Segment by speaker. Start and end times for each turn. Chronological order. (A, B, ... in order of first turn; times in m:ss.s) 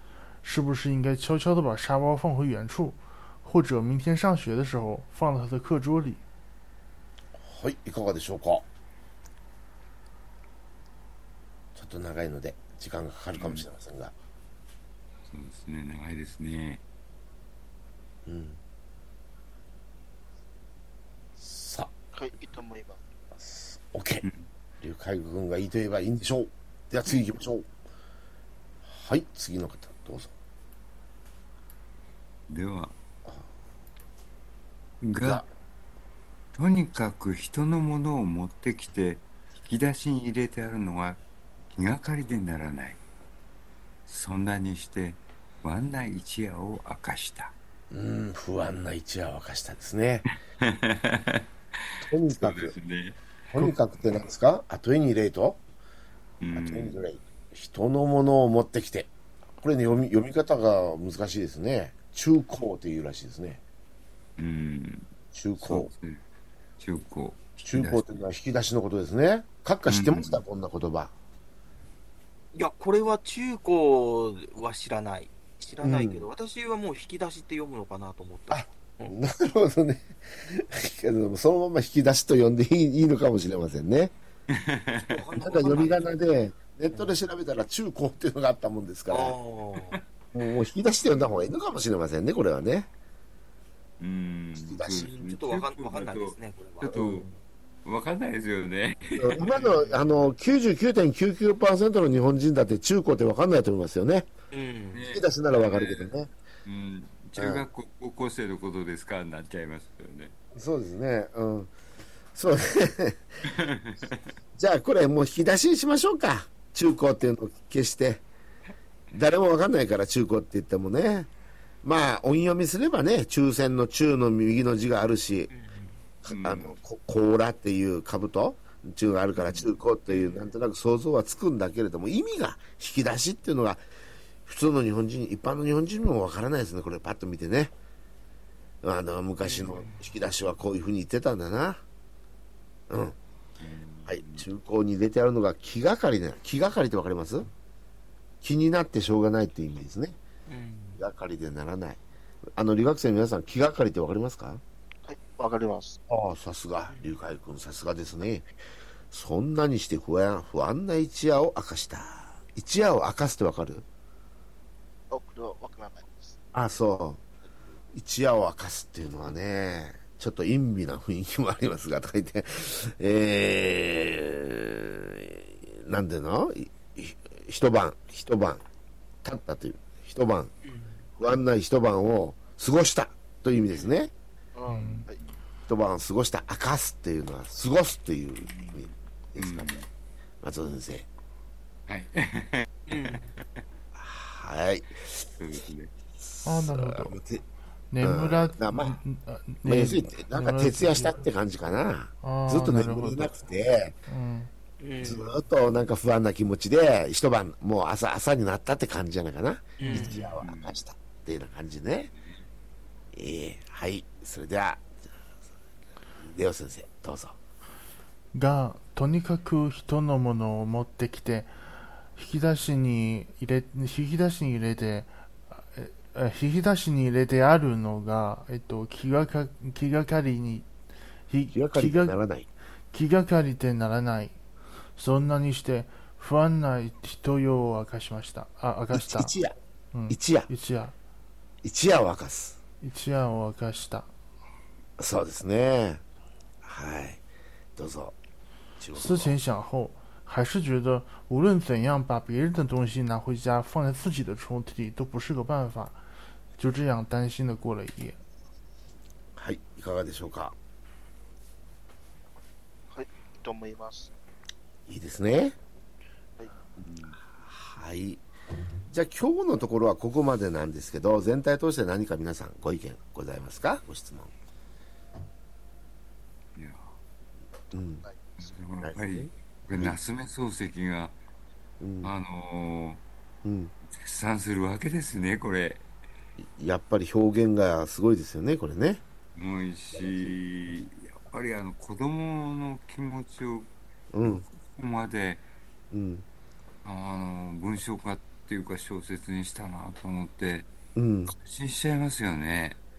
0:00.4-0:06.2 A
0:07.4-0:08.6 B
0:11.7-0:14.1 B
0:13.4-0:13.6 C
0:15.3-0:16.8 C
0:18.2-0:18.6 B
0:21.4-0:21.9 B
0:22.1-0:23.0 D
0:23.4-0:24.2 B
0:24.8-0:27.7 B
0:28.8-0:30.3 B
0:32.5-0:32.9 C
0:35.0-0:35.4 C
0:35.2-0:35.4 B
0:36.5-0:41.2 C
0:41.7-0:43.0 C
0:44.1-0:47.5 C
0:47.9-0:50.2 B
0:50.6-0:51.4 C
0:52.0-0:52.7 B
0:52.3-0:53.9 C
0:53.5-0:55.6 B
0:56.4-0:56.9 C
0:56.5-1:03.6 B
1:04.4-1:05.1 C
1:05.3-1:05.9 B
1:05.6-1:06.2 C
1:06.8-1:08.2 C
1:07.6-1:11.1 B
1:09.9-1:10.4 C
1:12.5-1:19.2 E
1:15.8-1:16.3 B
1:18.5-1:24.1 B
1:24.5-1:25.2 C
1:25.1-1:26.1 E
1:25.4-1:29.4 B
1:26.9-1:27.2 E
1:29.1-1:30.0 E
1:30.3-1:32.9 B
1:34.0-1:37.3 C
1:34.5-1:35.1 B
1:34.9-1:37.3 E
1:36.9-1:37.2 B
1:37.8-1:39.9 C
1:39.2-1:44.3 B
1:39.4-1:40.0 E
1:44.5-1:45.1 E
1:44.9-1:50.3 C
1:45.1-1:46.3 B
1:47.4-1:47.6 B
1:50.5-1:51.7 B
1:52.3-1:53.5 B
1:53.4-1:54.2 C
1:54.6-1:58.2 B
1:59.1-2:01.3 B
2:01.8-2:05.5 B
2:05.5-2:06.0 E
2:06.2-2:13.8 B
2:06.3-2:06.7 C
2:10.1-2:10.4 E
2:14.4-2:17.7 B
2:18.8-2:21.8 B
2:19.4-2:20.0 E
2:22.9-2:23.2 B
2:23.6-2:24.5 C
2:24.1-2:27.5 B
2:28.4-2:30.2 B
2:30.5-2:31.0 E
2:31.0-2:32.0 B
2:32.6-2:34.6 B
2:35.0-2:36.0 D
2:36.1-2:38.5 B
2:36.9-2:37.2 E
2:39.1-2:43.8 B
2:45.1-2:46.4 D
2:46.5-2:47.2 B
2:47.9-2:58.6 B
2:59.2-3:00.5 B
3:00.6-3:01.0 E
3:01.2-3:04.1 B
3:04.5-3:05.2 D
3:04.6-3:05.0 A
3:04.7-3:05.3 C
3:05.7-3:09.8 B
3:09.4-3:09.8 C
3:10.4-3:11.1 B
3:11.9-3:13.2 C
3:12.9-3:13.4 E
3:13.9-3:15.3 B
3:15.4-3:15.9 C
3:16.4-3:17.1 A
3:16.4-3:17.4 B
3:17.9-3:21.2 A
3:18.0-3:19.0 B
3:19.6-3:24.0 B
3:22.2-3:23.3 A
3:24.1-3:24.5 A
3:24.8-3:25.3 E
3:25.0-3:32.1 B
3:29.8-3:30.3 E
3:29.8-3:30.2 A
3:30.4-3:30.8 C
3:33.1-3:34.9 B
3:36.2-3:37.4 B
3:38.3-3:50.7 A
3:51.3-3:52.2 A
3:51.5-3:52.5 B
3:52.9-3:54.4 A
3:55.0-3:59.3 A
3:58.9-3:59.5 B
3:59.9-4:00.9 A
4:00.1-4:00.5 B
4:01.6-4:02.6 B
4:02.8-4:04.1 A
4:05.0-4:06.0 B
4:06.6-4:07.2 B
4:07.8-4:08.2 B
4:08.8-4:09.4 B
4:08.9-4:16.0 A
4:16.6-4:18.2 A
4:19.4-4:20.5 B
4:22.9-4:24.1 D
4:24.9-4:25.6 B
4:26.8-4:27.2 C
4:27.4-4:28.2 B
4:28.9-4:34.3 B
4:36.6-4:37.0 C
4:37.7-4:38.0 B
4:38.0-4:38.8 D
4:38.4-4:41.2 C
4:38.8-4:40.0 B
4:41.8-4:42.1 B
4:42.0-4:43.0 C
4:43.4-4:43.7 B
4:43.9-4:45.8 C
4:46.4-4:49.0 B
4:49.4-4:53.7 C
4:49.9-4:50.3 B
4:54.1-4:54.4 B
4:54.2-4:55.4 C
4:55.9-4:56.2 B
4:56.8-5:00.7 C
5:00.9-5:01.3 B
5:01.3-5:02.8 C